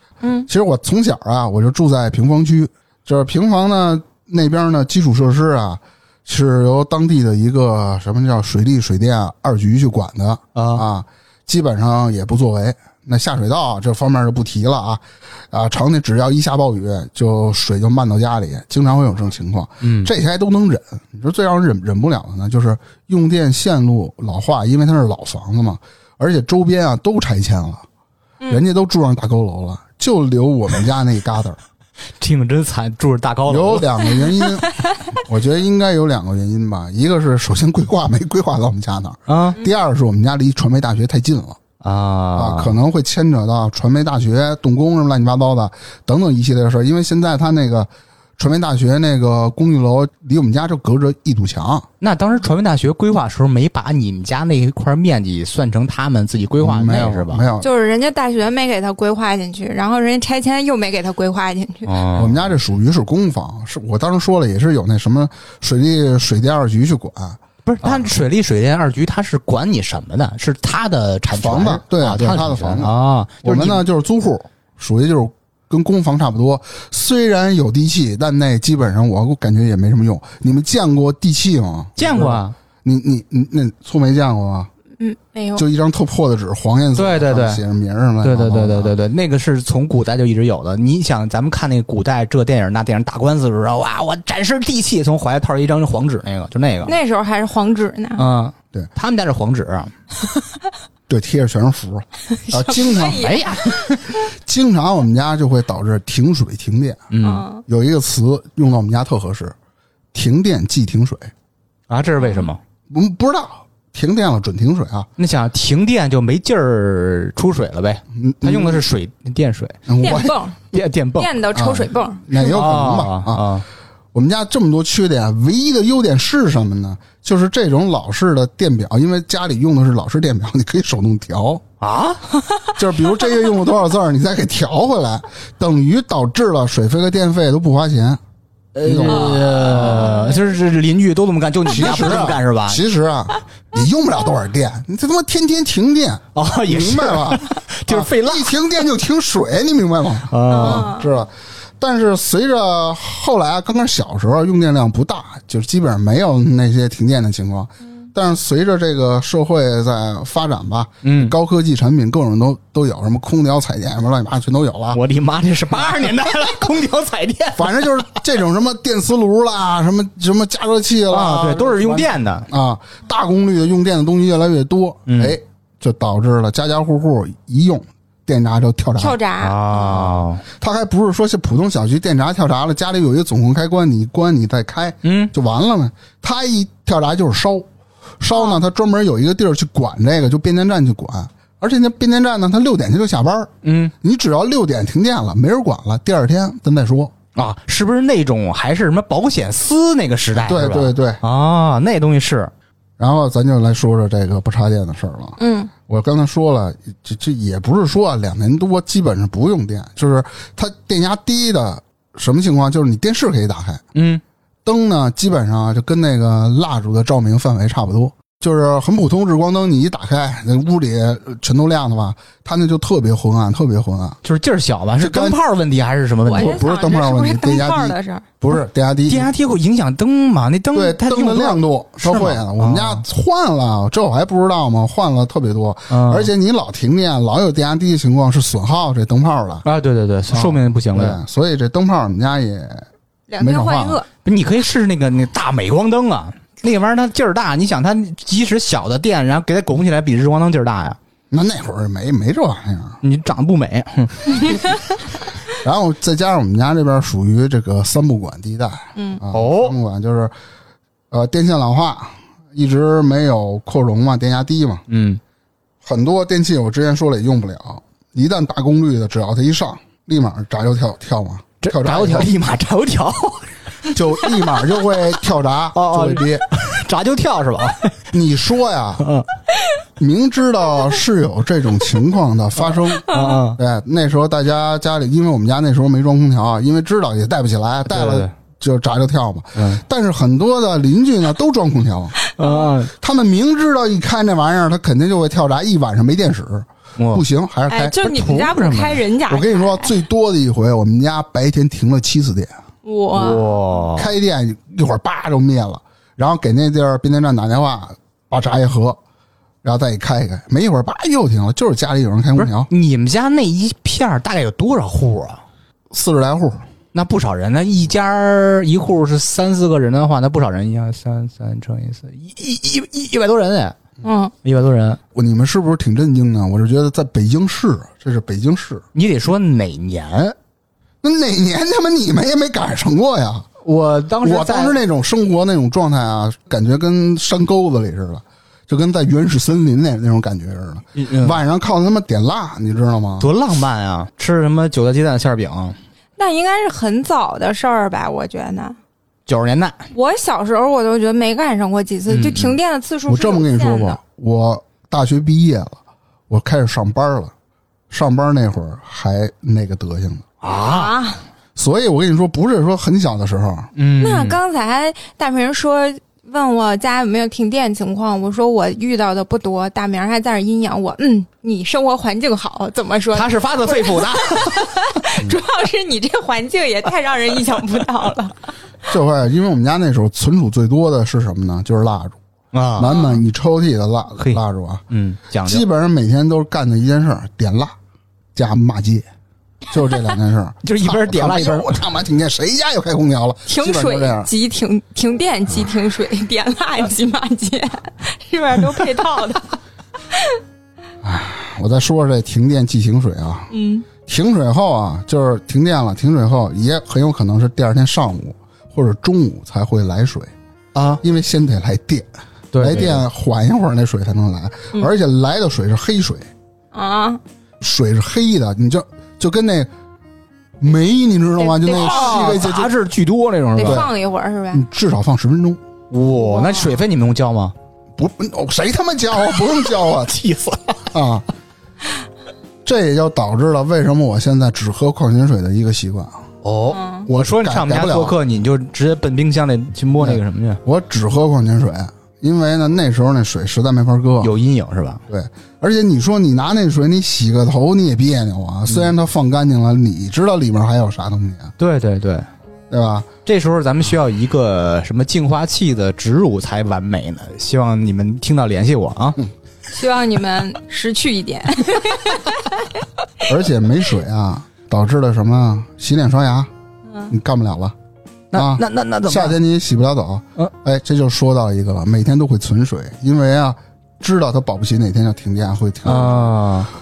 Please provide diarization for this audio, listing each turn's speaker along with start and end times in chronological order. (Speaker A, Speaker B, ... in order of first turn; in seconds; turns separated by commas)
Speaker A: 0.2-0.5, Speaker B: 0.5-27.8, Speaker C: 10.5-10.8, Speaker C: 19.8-20.1, Speaker B: 28.5-31.6, Speaker C: 32.2-33.9, Speaker B: 33.5-41.6, Speaker A: 34.6-35.0, Speaker C: 39.3-39.6, Speaker C: 41.8-42.8, Speaker B: 42.3-51.9, Speaker C: 52.0-57.5, Speaker B: 56.6-57.7, Speaker A: 57.6-61.9, Speaker C: 61.9-62.4, Speaker B: 62.1-68.1, Speaker C: 67.7-73.8, Speaker B: 71.3-72.9, Speaker B: 73.4-84.7, Speaker C: 82.0-82.5, Speaker A: 85.0-85.6, Speaker B: 85.6-88.9, Speaker C: 87.0-87.6, Speaker C: 88.2-96.9, Speaker A: 96.8-98.3, Speaker C: 98.2-99.9, Speaker B: 101.1-103.2, Speaker A: 102.3-103.9, Speaker C: 103.1-104.1, Speaker B: 104.2-107.1, Speaker C: 107.1-107.5, Speaker A: 107.2-107.6, Speaker B: 107.7-109.5, Speaker B: 110.1-111.3, Speaker C: 111.9-112.6, Speaker A: 112.2-112.5, Speaker B: 112.9-115.1, Speaker C: 115.2-119.8, Speaker B: 118.1-118.8, Speaker B: 119.9-120.3, Speaker A: 120.0-120.6, Speaker C: 120.7-121.4, Speaker A: 121.2-122.3, Speaker B: 121.5-123.5, Speaker C: 122.3-123.6, Speaker B: 124.1-131.6, Speaker C: 131.8-132.3, Speaker B: 132.8-138.2, Speaker C: 138.8-142.8, Speaker B: 138.8-140.2, Speaker A: 139.1-140.5, Speaker B: 141.7-165.0, Speaker C: 146.3-148.5, Speaker C: 150.3-150.9, Speaker A: 150.5-151.1, Speaker C: 161.0-161.3, Speaker C: 164.9-168.1, Speaker B: 167.6-179.2, Speaker C: 171.1-172.5, Speaker C: 175.1-175.4, Speaker A: 179.0-179.9, Speaker C: 179.4-180.4, Speaker B: 179.9-187.7, Speaker C: 185.0-185.3, Speaker B: 188.2-197.1, Speaker A: 188.3-188.6, Speaker C: 193.6-193.9, Speaker C: 197.3-202.5, Speaker B: 200.3-201.2, Speaker B: 203.0-213.8, Speaker A: 205.4-205.7, Speaker C: 213.9-214.2, Speaker B: 214.6-224.2, Speaker C: 224.2-226.6, Speaker B: 225.0-225.4, Speaker A: 226.2-228.2, Speaker B: 226.3-229.3, Speaker C: 228.5-233.0, Speaker B: 230.7-239.6, Speaker C: 235.9-236.3, Speaker C: 239.6-241.2, Speaker B: 240.3-242.9, Speaker A: 243.3-244.1, Speaker B: 243.4-244.0, Speaker C: 244.2-251.0, Speaker B: 251.3-253.0, Speaker C: 253.0-254.8, Speaker B: 255.5-260.3, Speaker C: 259.3-259.8, Speaker B: 261.1-264.8, Speaker C: 264.9-265.2, Speaker B: 265.8-272.3, Speaker C: 271.6-273.9, Speaker B: 273.9-276.4, Speaker C: 275.7-278.0, Speaker B: 278.1-279.1, Speaker C: 279.0-279.2, Speaker B: 280.0-292.1, Speaker C: 282.6-283.6, Speaker A: 283.1-283.4, Speaker C: 287.9-288.3, Speaker C: 289.6-289.8, Speaker C: 292.4-292.9, Speaker A: 292.4-292.7, Speaker B: 293.0-298.0, Speaker C: 297.0-297.2, Speaker A: 297.7-299.9, Speaker C: 298.0-299.1, Speaker B: 299.3-302.6, Speaker A: 302.8-303.6, Speaker C: 303.1-304.1, Speaker B: 303.9-309.0, Speaker B: 309.6-312.7, Speaker C: 312.4-315.4, Speaker B: 315.9-316.7, Speaker C: 316.9-323.8, Speaker A: 324.0-324.3, Speaker C: 324.4-325.0, Speaker B: 325.1-328.8, Speaker C: 328.9-330.4, Speaker B: 331.0-333.5, Speaker C: 333.6-334.8, Speaker B: 334.2-343.3, Speaker C: 340.9-341.4, Speaker C: 343.2-345.8, Speaker A: 346.2-348.8, Speaker C: 349.3-349.8, Speaker A: 349.9-354.0, Speaker C: 352.1-352.5, Speaker B: 353.1-357.3, Speaker B: 357.9-360.2, Speaker C: 360.4-360.9, Speaker A: 360.6-361.2, Speaker B: 361.6-363.7, Speaker C: 363.7-364.4, Speaker A: 364.0-378.3, Speaker C: 373.1-374.7, Speaker B: 378.9-382.2, Speaker C: 382.5-382.9, Speaker B: 382.8-384.8, Speaker A: 382.9-383.2, Speaker C: 384.2-385.6, Speaker B: 385.4-387.7, Speaker B: 388.3-389.1, Speaker B: 389.7-394.3, Speaker C: 390.6-391.8, Speaker A: 393.5-399.6, Speaker A: 400.1-400.4, Speaker B: 401.0-403.5, Speaker A: 403.5-403.9, Speaker B: 404.0-410.3, Speaker C: 410.7-411.0, Speaker B: 411.0-416.3, Speaker C: 412.5-413.0, Speaker A: 416.7-417.2, Speaker B: 417.6-419.7, Speaker B: 420.6-422.7, Speaker A: 421.4-422.4, Speaker C: 421.7-423.9, Speaker A: 423.6-424.6, Speaker B: 423.6-423.9, Speaker B: 424.5-425.6, Speaker C: 425.9-427.5, Speaker A: 426.1-426.8, Speaker B: 428.0-430.2, Speaker C: 429.3-430.9, Speaker B: 430.9-431.2, Speaker B: 432.6-436.2, Speaker C: 436.4-440.6, Speaker A: 436.7-437.1, Speaker B: 437.1-438.2, Speaker B: 440.0-444.3, Speaker C: 444.2-445.0, Speaker B: 445.1-451.5, Speaker C: 448.7-448.9, Speaker C: 451.6-452.2, Speaker B: 452.7-453.1, Speaker C: 453.2-459.2, Speaker A: 459.7-462.6, Speaker B: 463.2-466.5, Speaker B: 467.1-467.7, Speaker C: 468.3-469.4, Speaker B: 468.3-476.3, Speaker C: 475.8-476.7